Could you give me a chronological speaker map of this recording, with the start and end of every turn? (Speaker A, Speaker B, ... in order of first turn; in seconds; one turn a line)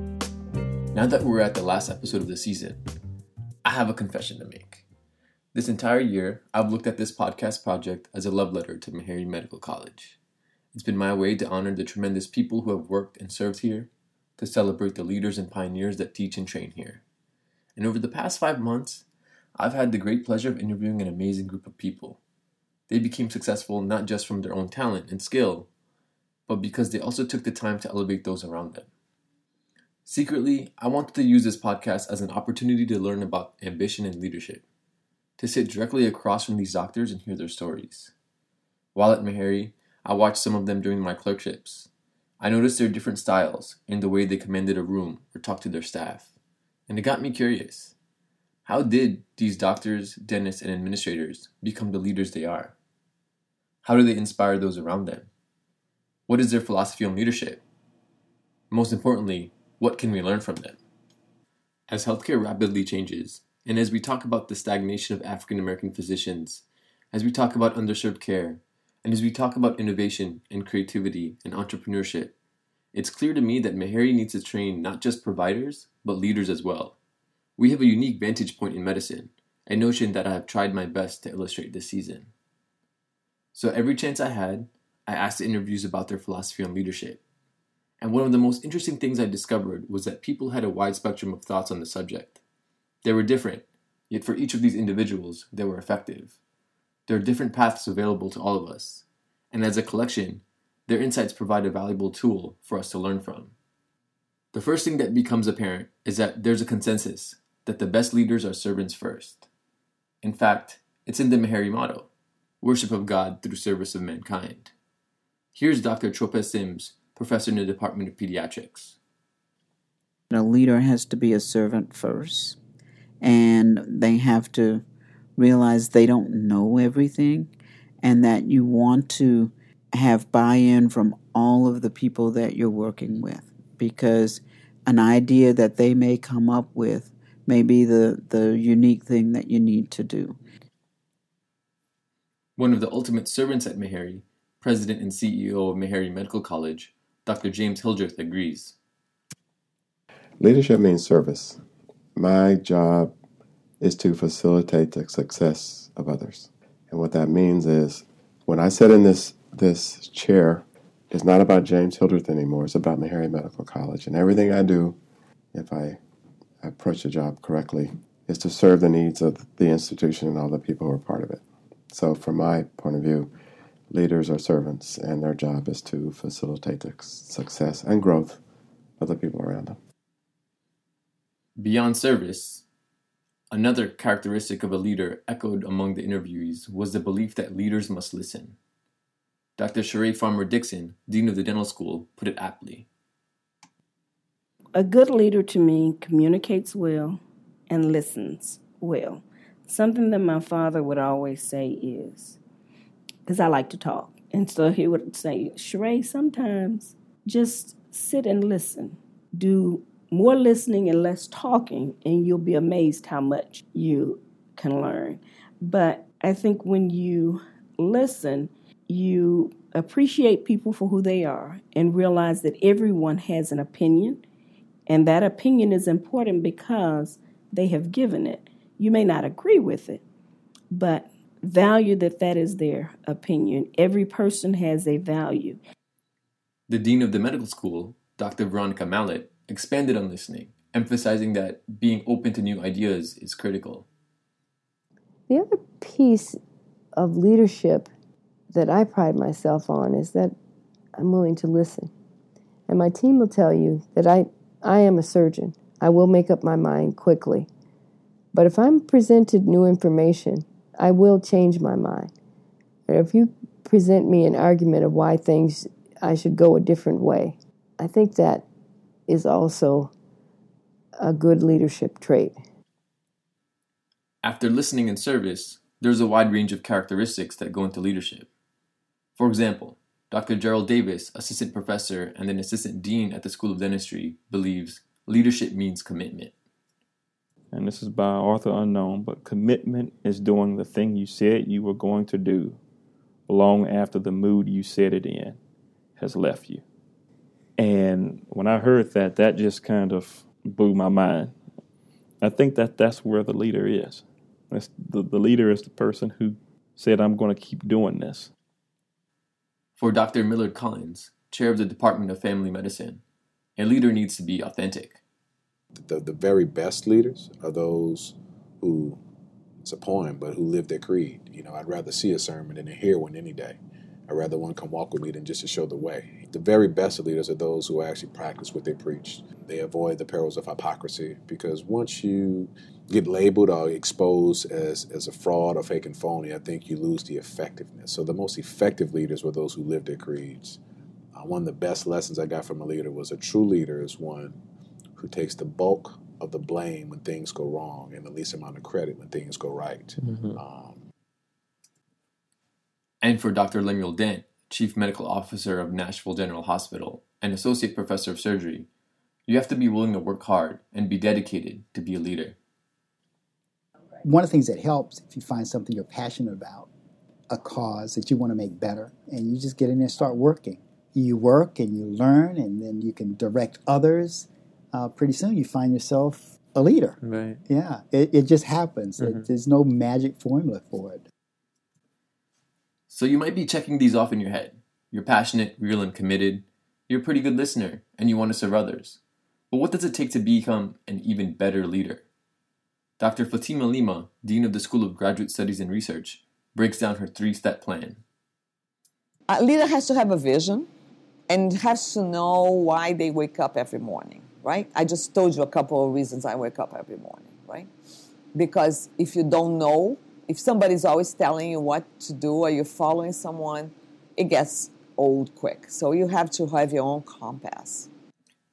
Speaker A: 0.9-2.8
Speaker A: 3.6-4.8
Speaker A: 5.5-10.2
Speaker A: 10.7-17.0
Speaker A: 17.8-19.1
Speaker A: 19.6-22.2
Speaker A: 22.9-25.7
Speaker A: 26.5-28.9
Speaker A: 30.1-34.6
Speaker A: 35.4-38.1
Speaker A: 39.0-41.9
Speaker A: 42.4-46.3
Speaker A: 46.9-48.0
Speaker A: 48.7-52.8
Speaker A: 53.8-55.3
Speaker A: 56.3-57.6
Speaker A: 58.7-60.8
Speaker A: 61.9-72.3
Speaker A: 72.9-77.0
Speaker A: 77.6-82.3
Speaker A: 83.5-87.2
Speaker A: 88.0-92.4
Speaker A: 93.0-96.4
Speaker A: 97.1-103.5
Speaker A: 104.5-109.5
Speaker A: 110.2-112.1
Speaker A: 112.6-114.7
Speaker A: 115.5-119.0
Speaker B: 120.3-122.6
Speaker B: 123.2-124.8
Speaker B: 125.4-127.5
Speaker B: 128.0-140.3
Speaker A: 142.6-148.8
Speaker C: 150.4-151.6
Speaker C: 152.2-153.1
Speaker C: 153.8-165.0
Speaker C: 165.5-166.0
Speaker C: 166.6-173.3
Speaker C: 173.9-178.4
Speaker C: 179.0-179.8
Speaker A: 181.6-182.7
Speaker A: 183.5-188.6
Speaker A: 189.6-192.9
Speaker D: 194.7-202.4
Speaker D: 203.3-224.2
Speaker D: 224.9-230.0
Speaker D: 230.7-235.6
Speaker A: 236.7-243.9
Speaker E: 245.3-246.4
Speaker E: 246.9-247.9
Speaker E: 248.5-250.3
Speaker E: 251.0-251.9
Speaker E: 252.7-257.5
Speaker E: 258.3-262.1
Speaker E: 262.9-268.4
Speaker E: 269.1-269.9
Speaker E: 271.0-272.4
Speaker A: 274.2-278.3
Speaker A: 279.2-286.3
Speaker F: 287.5-292.6
Speaker F: 293.3-295.4
Speaker F: 296.0-296.6
Speaker F: 297.6-301.4
Speaker F: 302.2-308.3
Speaker A: 309.8-313.0
Speaker A: 313.6-315.0
Speaker G: 315.8-319.0
Speaker G: 319.6-323.6
Speaker G: 324.1-340.6
Speaker G: 341.1-344.4
Speaker G: 345.0-350.8
Speaker A: 353.0-358.7
Speaker A: 359.3-362.4
Speaker H: 364.1-366.7
Speaker H: 367.3-376.9
Speaker H: 377.5-381.0
Speaker A: 382.9-389.0
Speaker A: 389.5-392.1
Speaker A: 393.0-398.0
Speaker I: 399.3-400.7
Speaker I: 401.3-407.7
Speaker I: 408.3-417.9